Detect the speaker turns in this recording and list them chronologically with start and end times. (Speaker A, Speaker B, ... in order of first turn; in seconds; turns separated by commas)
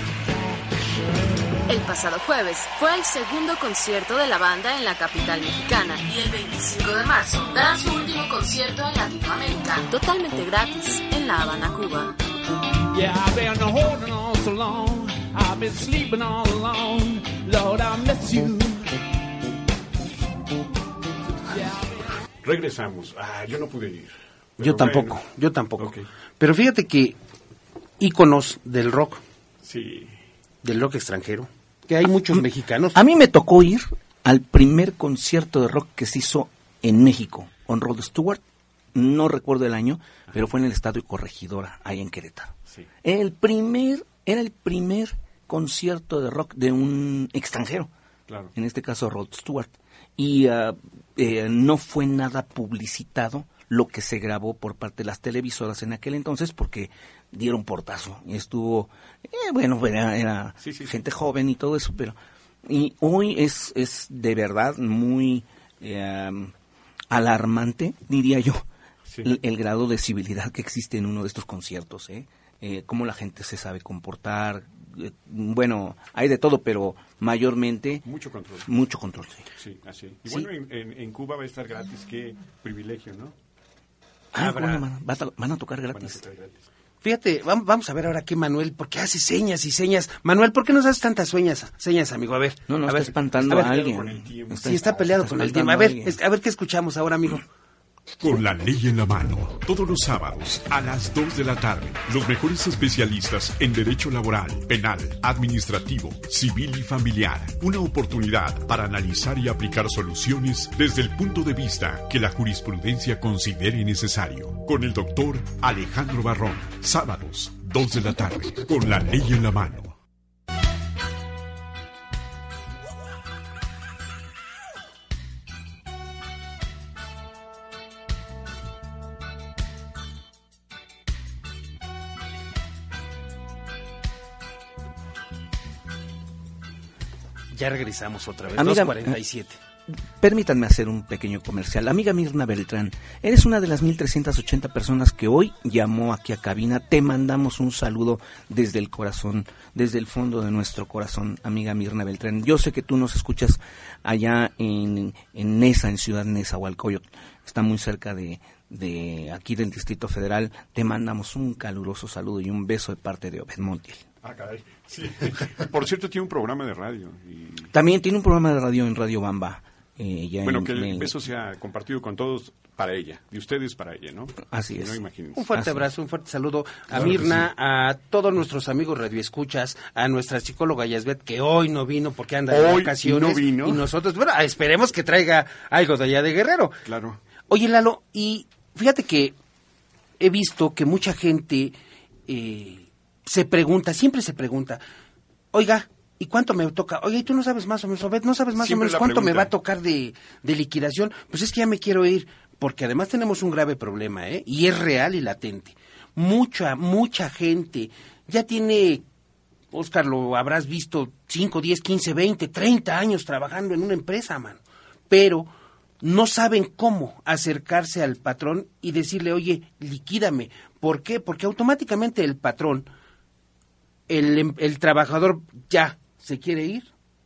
Speaker A: 1.7-12.1, Speaker B: 12.9-18.9, Speaker B: 21.5-22.1, Speaker C: 22.4-25.2, Speaker D: 24.6-27.2, Speaker C: 25.8-26.1, Speaker D: 28.0-29.2, Speaker C: 29.6-30.2, Speaker D: 30.6-33.0, Speaker E: 32.9-38.4, Speaker E: 38.9-47.9, Speaker E: 48.5-66.5, Speaker C: 60.6-61.0, Speaker E: 67.1-68.6, Speaker C: 69.1-69.4, Speaker E: 69.2-78.0, Speaker C: 78.0-78.7, Speaker E: 78.7-79.5, Speaker C: 79.6-83.3, Speaker E: 84.3-86.2, Speaker D: 84.4-84.8, Speaker C: 85.9-86.6, Speaker D: 87.0-93.8, Speaker E: 92.7-96.2, Speaker C: 93.3-95.0, Speaker D: 94.6-97.4, Speaker F: 98.2-120.0, Speaker D: 137.5-139.6, Speaker E: 138.6-139.1, Speaker E: 140.2-164.0, Speaker C: 164.2-167.7, Speaker E: 167.7-171.1, Speaker C: 170.4-175.6, Speaker E: 174.5-175.0, Speaker D: 175.3-186.8, Speaker C: 176.9-177.4, Speaker C: 182.5-183.8, Speaker C: 186.8-187.2, Speaker D: 187.5-189.3, Speaker D: 190.2-191.8, Speaker D: 192.3-194.8, Speaker D: 195.5-209.0, Speaker C: 198.6-199.5, Speaker D: 209.7-222.9, Speaker D: 224.1-226.9